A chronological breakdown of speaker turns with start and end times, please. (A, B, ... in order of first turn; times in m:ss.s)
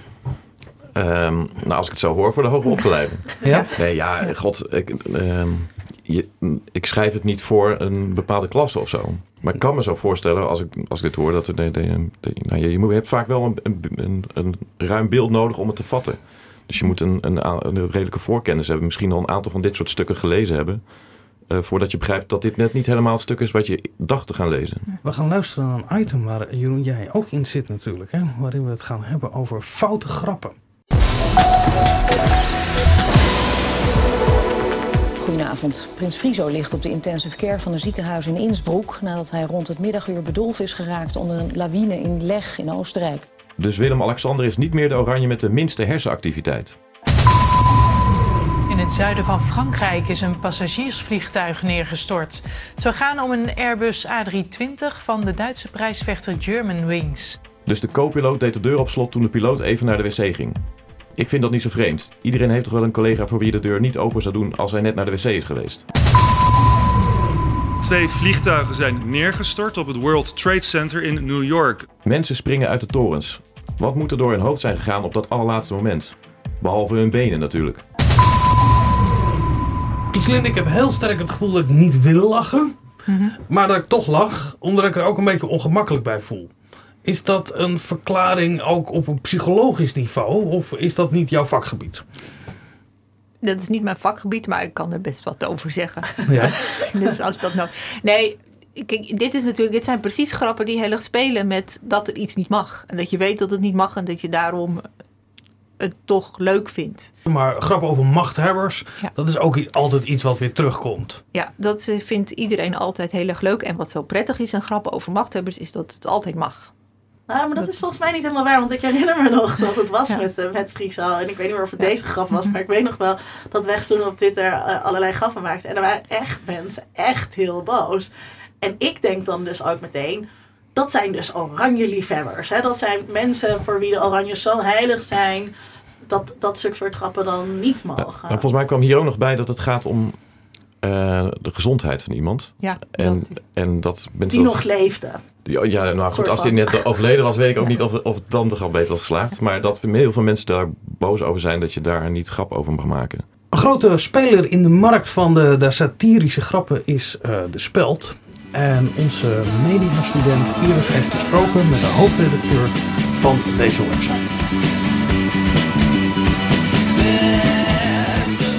0:00.9-0:24.9 A
0:03.4-0:03.7 B
0:25.0-0:30.6 B
0:35.2-0:43.3 C
0:43.6-0:46.8 A
0:48.7-0:57.4 D
0:57.6-1:00.6 A
1:01.2-1:05.8 A
1:07.8-1:11.9 E
1:12.0-1:17.8 A
1:20.1-1:22.7 B
1:23.0-1:23.4 F
1:23.5-1:26.5 B
1:27.0-1:32.0 B
1:33.4-1:44.9 F
1:36.3-1:36.6 B
1:45.8-1:47.1 F
1:47.2-1:51.2 B
1:51.3-1:56.7 F
1:57.3-2:08.1 G
2:01.8-2:02.5 F
2:08.6-2:15.5 G
2:16.1-2:18.4 G
2:18.0-2:20.3 A
2:20.8-2:24.6 A
2:22.6-2:23.4 F
2:24.3-2:25.2 G
2:25.4-2:33.2 A
2:26.1-2:26.8 G
2:33.5-2:44.3 B